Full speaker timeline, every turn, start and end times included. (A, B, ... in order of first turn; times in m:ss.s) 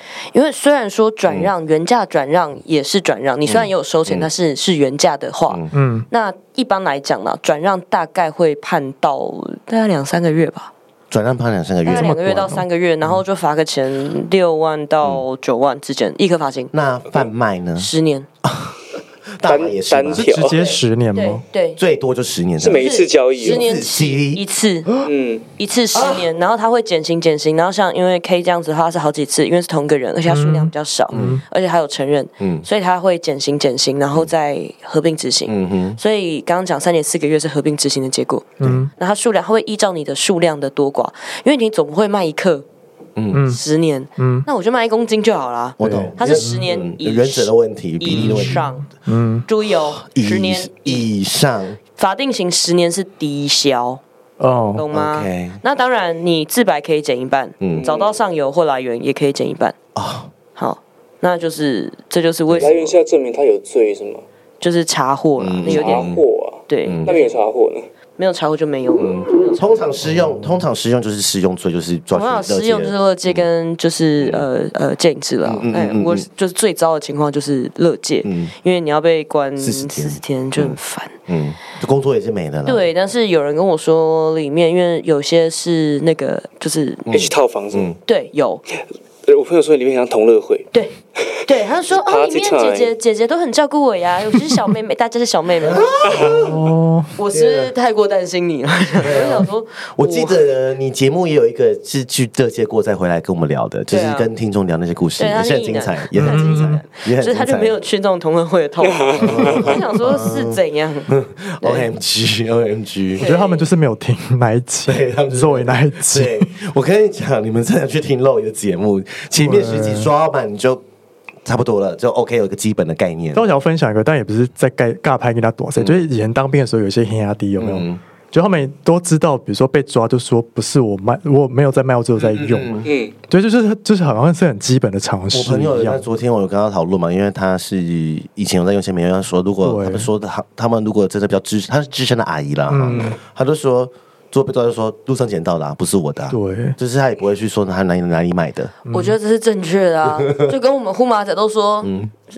0:00.3-0:10.7 A
0:03.4-0:04.3 B
0:05.7-0:06.1 C
0:11.1-0:12.5 B
0:11.8-0:16.7 A
0:11.9-0:12.6 C
0:16.7-0:17.9 B
0:17.8-0:18.3 A
0:18.4-0:18.8 B
0:19.4-0:20.5 B
0:19.4-0:20.7 D
0:20.1-0:21.4 C
0:21.1-0:21.8 A
0:21.8-0:24.4 B
0:22.6-0:23.6 D
0:22.8-0:24.9 A
0:25.0-0:25.5 D
0:25.6-0:42.6 A
0:25.9-0:26.3 B
0:30.3-0:31.4 C
0:31.1-0:31.4 B
0:32.4-0:32.6 B
0:35.5-0:36.0 B
0:38.6-0:38.9 C
0:43.2-0:43.5 B
0:43.3-0:43.6 C
0:43.4-0:48.9 A
0:44.2-0:44.5 C
0:45.8-0:48.6 B
0:45.8-0:46.6 C
0:48.1-0:49.4 C
0:49.4-0:51.1 A
0:49.6-0:51.8 B
0:52.0-0:54.0 A
0:54.4-0:54.8 C
0:54.7-0:59.8 A
0:54.9-0:55.6 B
0:57.6-0:57.9 B
0:57.7-0:58.2 D
0:59.9-1:00.3 B
1:00.6-1:03.0 A
1:02.6-1:04.2 D
1:04.6-1:06.2 A
1:05.4-1:06.2 B
1:05.6-1:07.9 D
1:06.7-1:07.3 A
1:06.8-1:07.1 B
1:08.2-1:09.8 A
1:09.0-1:13.5 B
1:10.1-1:10.5 C
1:12.1-1:21.1 A
1:14.2-1:14.4 B
1:15.4-1:16.3 B
1:18.2-1:18.5 B
1:19.6-1:22.8 B
1:22.6-1:27.1 A
1:27.1-1:28.0 B
1:27.1-1:27.9 D
1:28.0-1:28.6 A
1:29.2-1:32.9 D
1:30.7-1:35.9 A
1:35.6-1:36.6 B
1:36.0-1:36.4 D
1:36.2-1:37.1 C
1:37.2-1:40.4 A
1:37.3-1:37.7 B
1:39.0-1:47.8 B
1:43.9-1:44.3 A
1:45.2-1:51.9 A
1:46.1-1:46.8 C
1:49.0-1:49.7 D
1:49.2-1:53.2 B
1:53.2-1:53.7 A
1:53.2-1:56.5 C
1:54.9-2:00.8 B
1:59.4-2:00.1 C
2:01.4-2:03.5 B
2:03.3-2:16.0 C
2:05.8-2:06.0 B
2:07.6-2:08.0 B
2:12.3-2:12.9 B
2:12.8-2:13.1 D
2:15.3-2:28.7 B
2:19.6-2:20.1 C
2:22.7-2:23.2 C
2:26.3-2:26.8 C
2:28.8-2:29.1 C
2:28.9-2:31.9 A
2:30.0-2:30.5 B
2:31.8-2:32.1 B